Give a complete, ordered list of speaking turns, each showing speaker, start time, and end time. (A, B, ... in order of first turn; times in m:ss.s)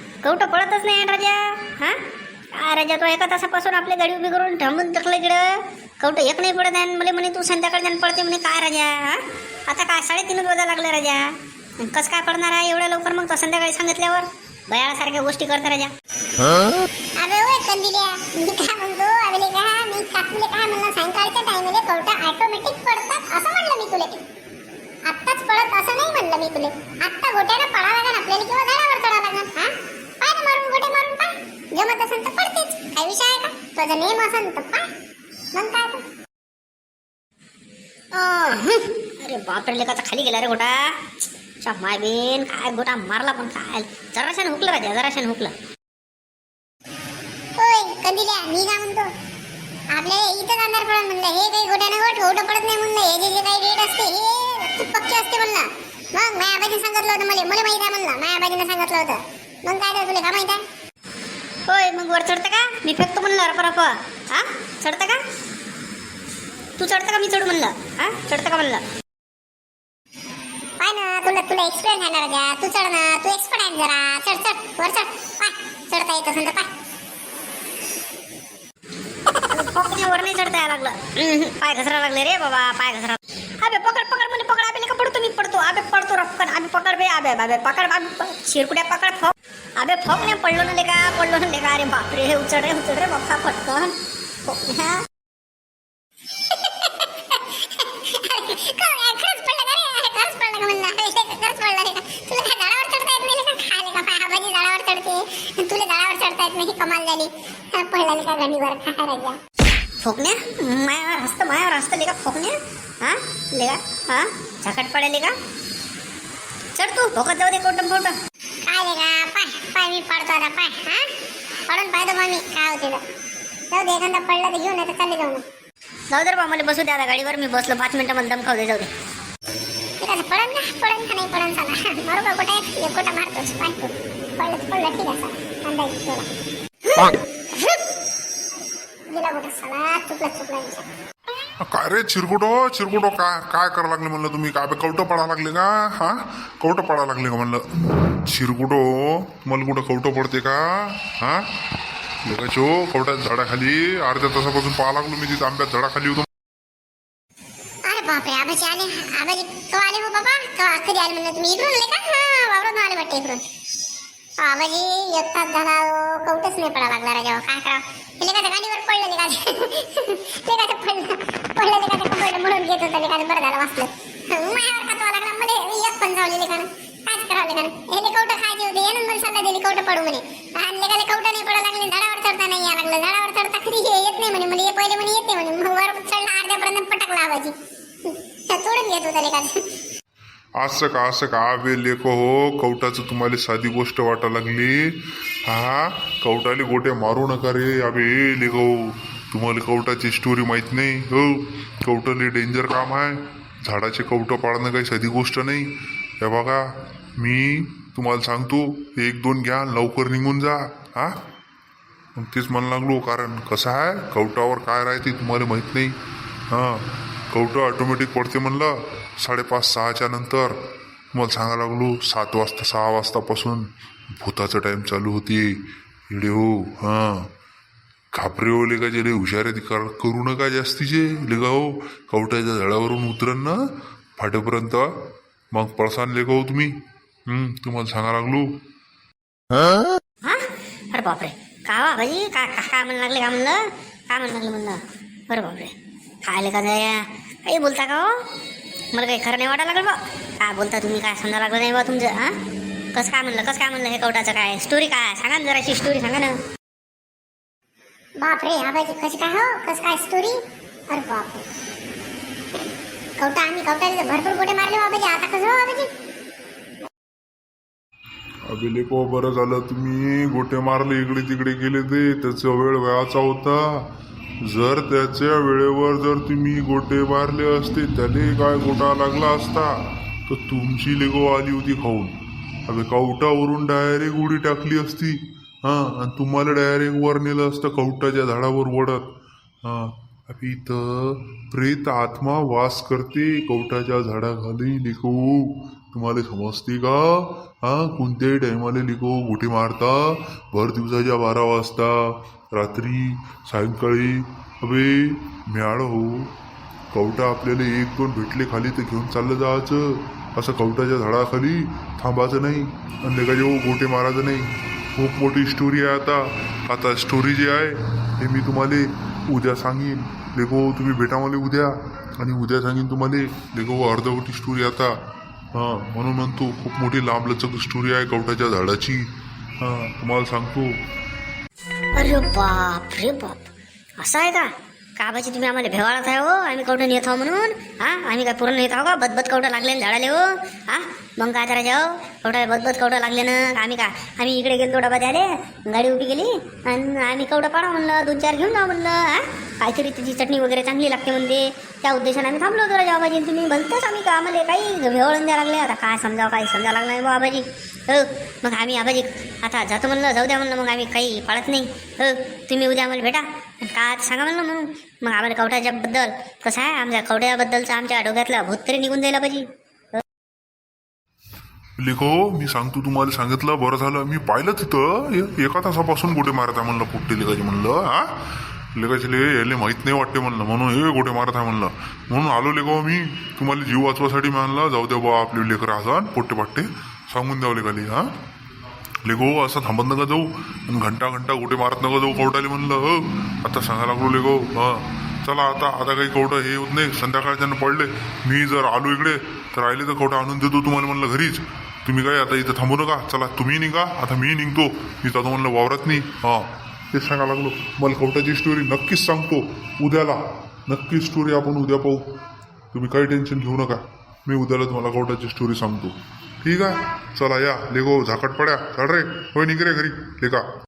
0:00.2-0:02.0 A
0:02.5-0:15.9 A
0:17.2-0:24.2 B
0:25.1-0:34.9 B
0:35.5-0:36.0 B
0:38.1-0:40.9 A
0:41.6-0:45.5 A
0:47.6-0:49.1 B
0:49.9-1:00.6 B
1:01.7-1:05.2 A
1:06.8-1:08.8 A
1:10.8-1:16.7 B
1:19.4-1:35.0 A
1:36.6-1:49.4 B
1:50.0-1:55.4 A
1:56.8-1:58.2 A
1:58.7-2:01.1 B
2:01.7-2:03.0 B
2:03.7-2:05.4 B
2:06.1-2:08.9 A
2:10.0-2:16.3 B
2:16.9-2:17.2 B
2:19.1-2:20.8 B
2:21.6-2:31.5 C
2:32.2-2:36.3 C
2:37.9-2:43.4 B
2:44.4-3:07.5 B
3:08.0-3:09.6 B
3:10.6-3:31.2 C
3:32.2-3:36.0 C
3:36.5-3:40.6 C
3:41.1-3:47.3 C
3:48.1-3:53.6 C
3:54.2-3:54.9 C
3:55.5-3:58.5 C
4:00.2-4:08.1 A
4:08.9-4:12.4 A
4:13.0-4:16.4 A
4:18.2-4:20.4 B
4:20.9-4:21.4 B
4:23.2-4:25.9 B
4:28.5-4:33.9 C
4:34.4-4:49.1 C
4:49.6-5:06.3 C
5:06.9-5:25.0 C
5:25.5-5:29.0 C
5:29.6-5:30.8 C
5:32.0-5:33.5 A
5:34.0-6:10.0 A
6:11.8-6:18.2 C
6:18.8-6:28.1 C
6:29.0-6:52.1 C
6:52.7-7:00.4 C